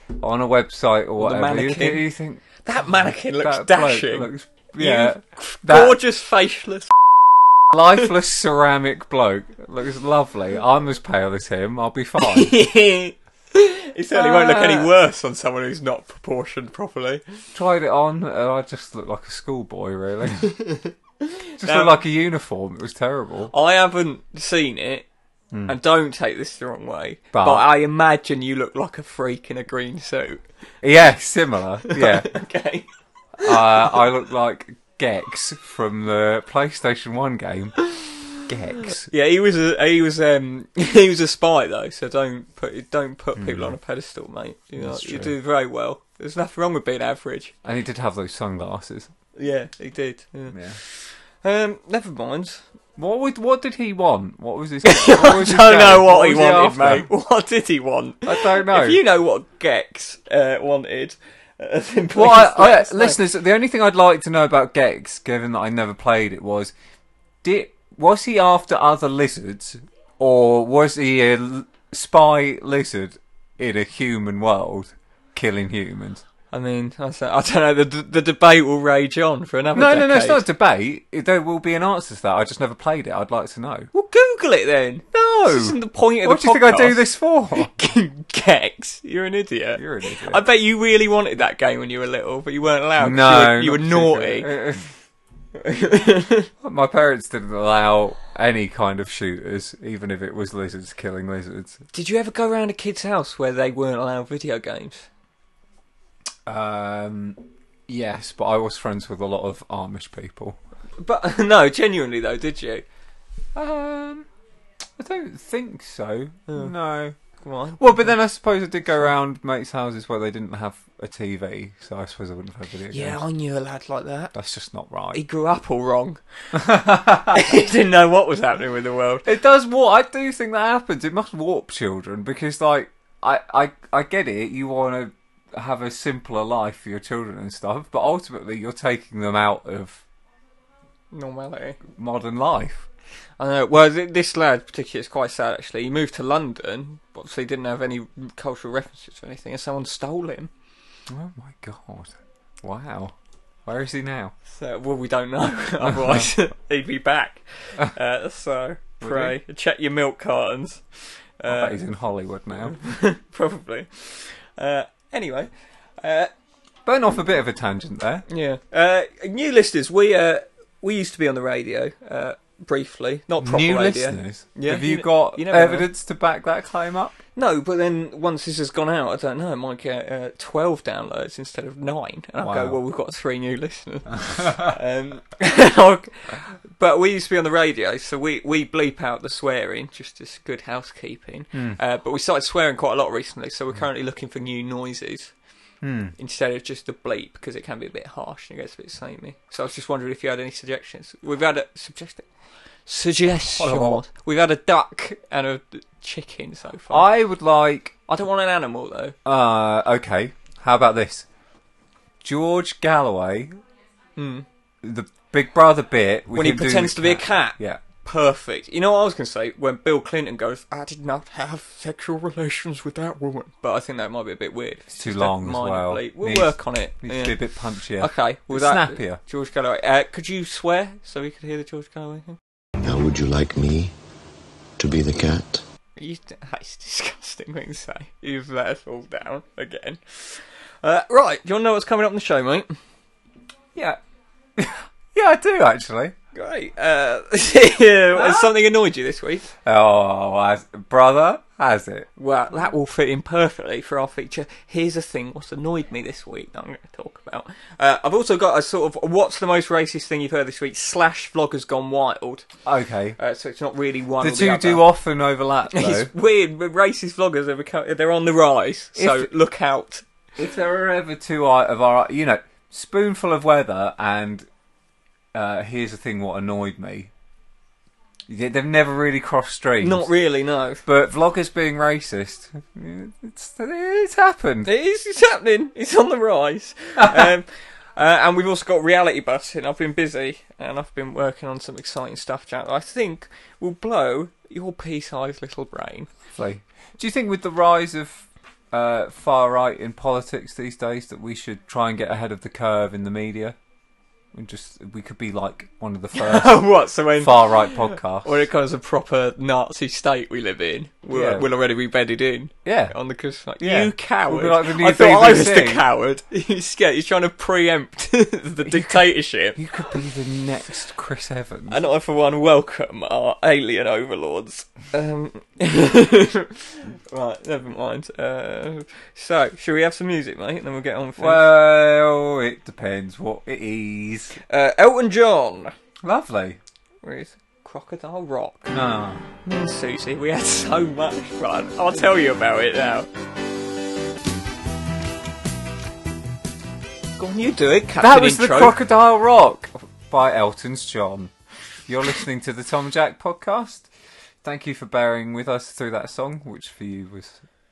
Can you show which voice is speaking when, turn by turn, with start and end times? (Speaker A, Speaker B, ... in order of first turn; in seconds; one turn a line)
Speaker A: 0.1-2.4
Speaker B: 1.2-6.9
Speaker A: 3.0-6.0
Speaker A: 7.7-12.6
Speaker B: 12.2-17.2
Speaker A: 14.1-14.9
Speaker A: 17.5-20.6
Speaker B: 21.3-22.0
Speaker A: 21.6-23.5
Speaker B: 23.5-25.1
Speaker B: 25.7-30.4
Speaker A: 27.3-27.7
Speaker A: 30.8-32.3
Speaker B: 31.9-32.9
Speaker A: 33.4-37.8
Speaker A: 38.4-39.1
Speaker B: 38.9-47.5
Speaker A: 43.4-43.8
Speaker A: 44.8-45.3
Speaker A: 47.6-49.1
Speaker B: 49.4-52.6
Speaker A: 50.5-50.8
Speaker A: 53.0-57.1
Speaker B: 54.8-63.2
Speaker A: 58.2-59.0
Speaker A: 62.1-66.7
Speaker A: 67.4-76.2
Speaker B: 76.5-80.4
Speaker A: 79.7-83.9
Speaker B: 83.9-94.5
Speaker A: 85.1-87.7
Speaker A: 89.7-90.4
Speaker A: 93.0-95.0
Speaker B: 95.6-96.5
Speaker A: 96.6-101.8
Speaker B: 101.9-105.1
Speaker A: 106.5-110.6
Speaker B: 111.0-112.8
Speaker A: 113.5-114.3
Speaker A: 115.0-117.2
Speaker B: 116.5-116.7
Speaker B: 117.4-118.2
Speaker A: 117.8-123.2
Speaker B: 122.9-124.3
Speaker A: 124.3-125.2
Speaker B: 125.1-126.2
Speaker A: 126.5-127.6
Speaker B: 127.3-129.3
Speaker A: 129.2-140.0
Speaker B: 141.1-141.8
Speaker A: 141.9-142.8
Speaker B: 143.4-150.5
Speaker A: 151.1-153.1
Speaker A: 153.7-154.3
Speaker B: 154.5-161.8
Speaker A: 155.9-156.2
Speaker A: 159.0-159.4
Speaker A: 161.4-162.8
Speaker B: 162.7-166.3
Speaker A: 166.8-168.2
Speaker B: 168.3-175.9
Speaker A: 173.4-177.2
Speaker B: 177.3-195.3
Speaker A: 182.4-182.8
Speaker A: 184.2-184.7
Speaker A: 191.5-191.8
Speaker A: 195.8-196.1
Speaker B: 196.2-202.3
Speaker B: 202.8-207.1
Speaker A: 203.5-204.0
Speaker A: 206.9-207.9
Speaker B: 208.1-209.2
Speaker A: 209.2-211.3
Speaker A: 212.2-213.6
Speaker B: 214.2-214.4
Speaker A: 214.8-217.8
Speaker B: 216.3-227.4
Speaker A: 224.9-229.2
Speaker B: 228.0-232.4
Speaker C: 232.8-233.9
Speaker C: 234.8-235.6
Speaker B: 236.0-242.7
Speaker A: 244.6-246.1
Speaker B: 246.3-249.5
Speaker A: 248.1-248.5
Speaker A: 249.6-252.1
Speaker B: 252.2-262.4
Speaker A: 262.6-263.2
Speaker B: 263.2-264.9
Speaker A: 264.2-266.1
Speaker B: 265.7-270.0
Speaker A: 268.9-269.3
Speaker A: 270.4-274.5
Speaker A: 275.3-277.1
Speaker A: 278.3-280.1
Speaker B: 279.8-280.8
Speaker A: 280.9-284.7
Speaker B: 284.6-296.1
Speaker A: 287.0-287.3
Speaker A: 296.3-303.6
Speaker A: 304.3-308.4
Speaker B: 306.1-319.7
Speaker A: 311.1-311.5
Speaker A: 312.6-312.9
Speaker A: 313.6-315.9
Speaker A: 318.6-321.8
Speaker B: 321.7-331.5
Speaker A: 331.2-334.4
Speaker B: 334.4-335.7
Speaker A: 336.0-336.6
Speaker B: 337.0-338.7
Speaker A: 338.7-339.2
Speaker B: 339.4-343.1
Speaker B: 347.2-348.8
Speaker A: 348.0-351.3
Speaker A: 351.9-353.9
Speaker A: 354.4-357.4